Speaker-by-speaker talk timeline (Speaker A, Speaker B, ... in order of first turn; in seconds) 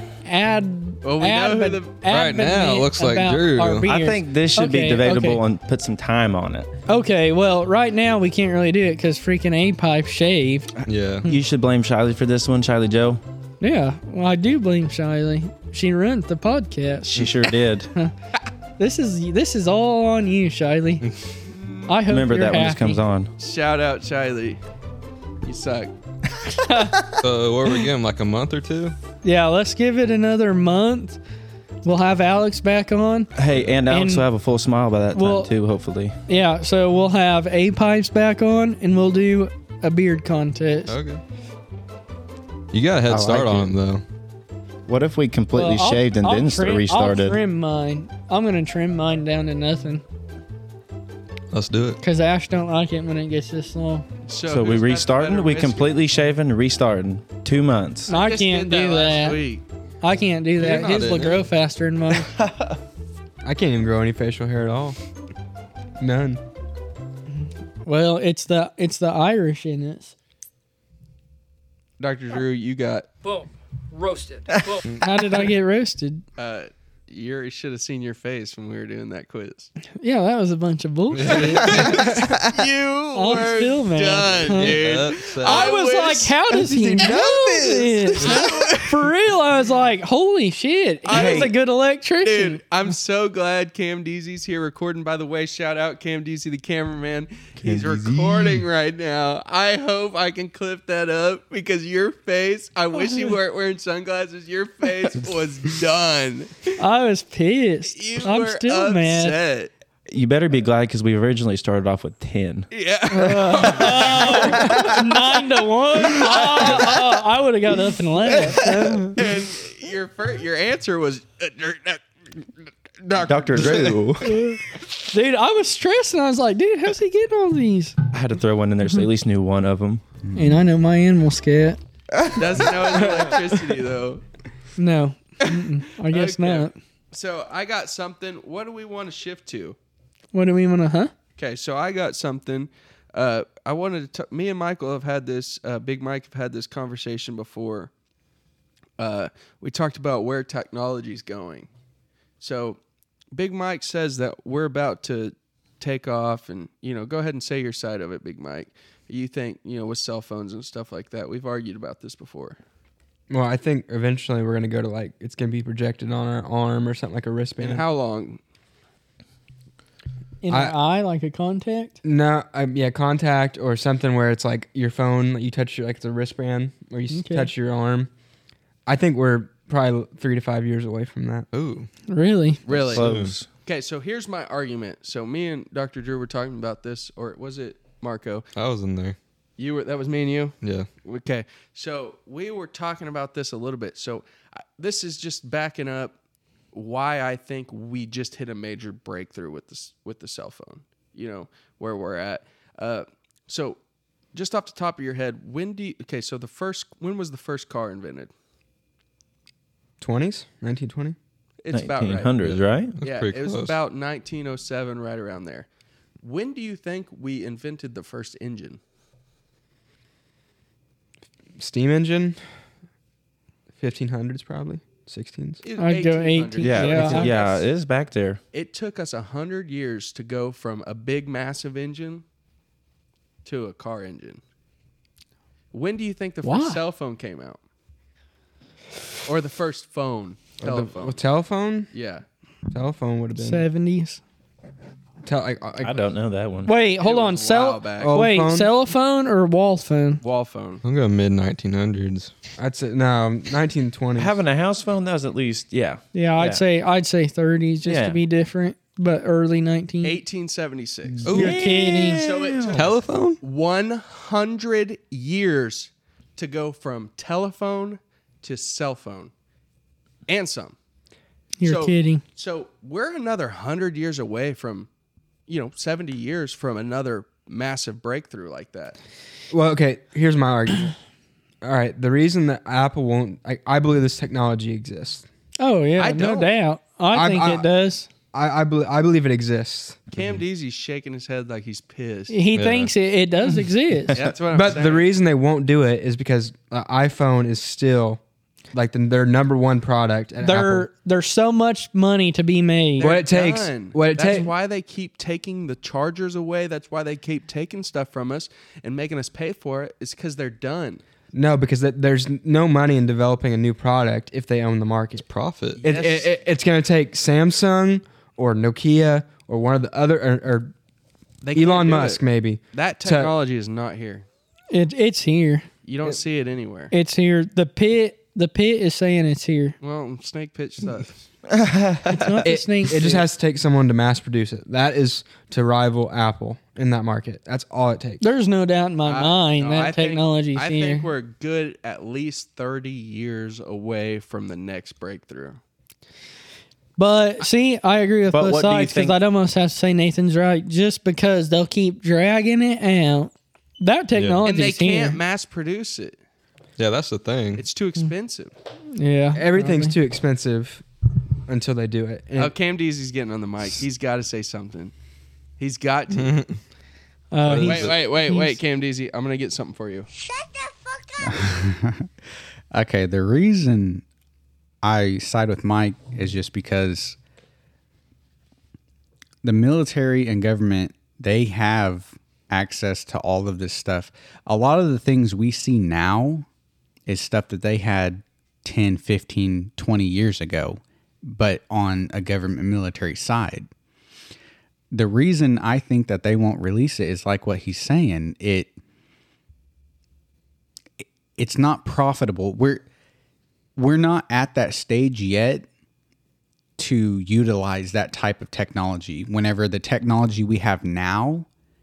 Speaker A: 0.2-5.4, 6.9-10.7, 13.6-17.3, 18.8-21.1, 21.9-23.0, 26.5-27.0, 29.2-31.2, 31.8-33.3, 33.9-34.3, 35.1-35.5, 36.3-41.0, 45.5-50.0, 52.0-54.1, 58.1-59.4, 60.0-62.3, 67.8-70.1, 75.0-76.2, 80.0-82.3, 83.1-92.6, 106.8-109.3, 113.1-119.2, 124.2-128.0, 130.3-131.8, 134.8-136.8, 140.3-141.1, 170.4-172.0, 177.1-177.5, 182.1-182.6, 225.8-227.3, 236.4-236.8, 243.4-244.2, 246.7-250.2, 256.1-260.2, 261.3-262.2, 271.6-272.2, 285.6-288.1, 292.3-294.2, 300.4-303.1, 324.7-325.7, 326.9-329.8, 332.1-333.3, 338.2-341.1, 347.0-355.2, 358.9-359.9, 367.3-368.6
Speaker B: 1.0-2.0, 21.5-22.0, 23.4-24.6, 25.4-25.9, 54.3-56.0, 58.1-59.6, 72.0-73.3, 76.4-79.7, 81.5-89.1, 91.1-91.6, 92.2-106.7, 107.9-109.7, 112.7-114.8, 116.1-116.9, 119.1-122.0, 123.0-124.0, 132.3-134.2, 136.1-139.8, 141.4-147.9, 149.0-151.7, 152.4-152.8, 153.3-162.6, 167.6-168.4, 182.7-183.1, 183.6-188.5, 189.6-194.2, 194.8-196.1, 196.7-203.8, 204.3-208.3, 211.6-215.7, 216.2-218.8, 225.6-227.7, 228.5-232.2, 233.4-234.4, 235.7-237.6, 239.2-241.2, 241.9-242.2, 247.0-248.2, 250.2-250.8, 260.0-261.5, 262.2-269.3, 270.3-270.8, 271.6-274.9, 275.5-279.0, 286.0-286.5, 290.1-292.4, 294.1-295.1, 303.0-311.0, 315.8-316.3, 321.4-324.3, 325.9-326.9, 329.8-331.3, 339.1-345.6, 354.4-356.2, 357.6-358.5, 362.4-364.9, 365.6-366.4, 367.6-370.1
Speaker C: 2.1-3.9, 10.9-11.3, 27.2-28.9, 40.9-41.2, 42.7-44.0, 51.5-52.0, 60.6-61.4, 81.1-82.3, 84.5-85.7, 181.5-181.9, 182.9-183.3, 188.6-189.2, 190.6-190.9, 213.0-213.8, 250.8-252.3, 262.7-263.4, 292.5-292.9, 315.2-315.8, 354.1-354.4, 356.8-357.6, 366.1-366.6, 367.4-368.0
Speaker D: 3.9-6.7, 11.3-13.2, 17.1-17.9, 22.1-23.3, 33.4-36.1, 43.1-43.8, 44.9-47.4, 54.5-58.1, 62.3-62.8, 74.1-74.8, 91.1-91.5, 97.6-98.6, 110.1-112.7, 123.2-124.4, 128.1-130.0, 182.7-183.5, 211.7-213.0, 226.6-228.4, 245.8-246.7, 254.2-256.6, 257.9-258.2, 261.2-262.9, 331.5-332.3, 348.3-349.2
Speaker E: 63.4-65.0, 66.0-66.4, 163.3-167.8, 170.5-170.8, 172.0-178.1, 178.9-181.5, 210.0-211.2, 221.6-222.4, 223.8-225.6, 240.6-241.9, 242.7-243.7, 245.2-246.1, 248.0-248.7, 252.6-254.4, 279.5-280.9, 281.6-285.3, 287.1-287.7, 288.3-290.0, 294.5-298.2, 298.7-300.9, 303.0-304.5, 311.3-315.3, 315.8-320.7, 321.6-323.3, 332.4-338.2, 359.4-360.8, 361.5-362.5
Speaker F: 371.2-372.1, 372.7-374.0, 374.8-377.2, 379.4-386.5, 387.1-393.7, 394.9-398.8, 401.4-402.9, 403.8-405.7, 406.8-411.5